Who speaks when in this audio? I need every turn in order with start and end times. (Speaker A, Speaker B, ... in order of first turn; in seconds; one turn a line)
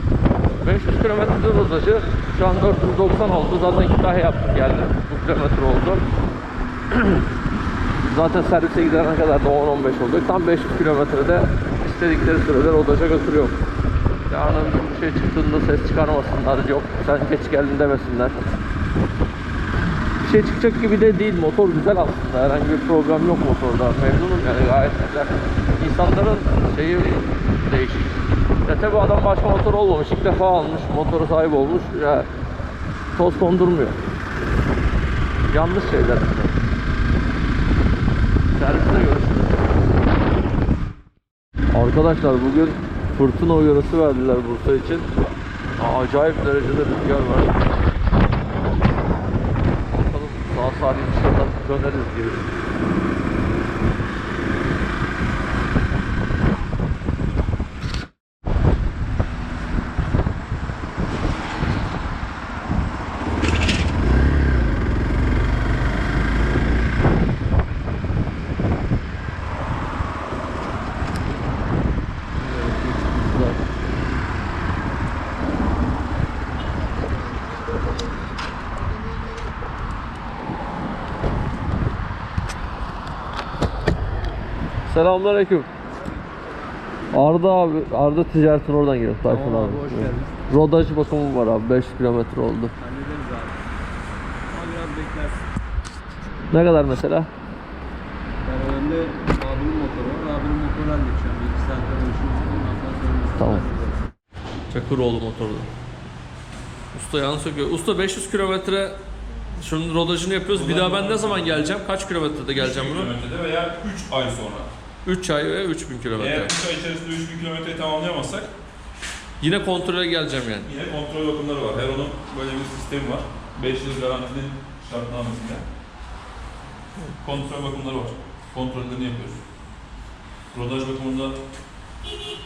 Speaker A: 0.6-6.0
Speaker A: 6.9-7.2
Speaker A: 8.0-13.6
Speaker A: 14.3-18.4
Speaker A: 20.2-32.3
Speaker A: 33.1-34.0
Speaker A: 35.5-36.5
Speaker A: 38.5-39.6
Speaker A: 41.7-45.1
Speaker A: 45.8-47.6
Speaker A: 49.9-52.5
Speaker A: 72.4-73.6
Speaker A: 84.9-85.7
Speaker A: 87.1-92.7
Speaker B: 89.2-90.4
Speaker B: 92.8-93.5
Speaker B: 94.5-95.4
Speaker A: 96.5-97.3
Speaker B: 98.5-104.0
Speaker A: 103.4-103.7
Speaker A: 104.7-105.7
Speaker A: 106.9-109.0
Speaker A: 109.6-113.1
Speaker C: 110.5-111.7
Speaker C: 112.5-114.7
Speaker A: 115.0-116.5
Speaker C: 116.2-118.5
Speaker A: 119.4-120.7
Speaker C: 120.7-125.6
Speaker C: 127.2-129.4
Speaker C: 130.5-131.4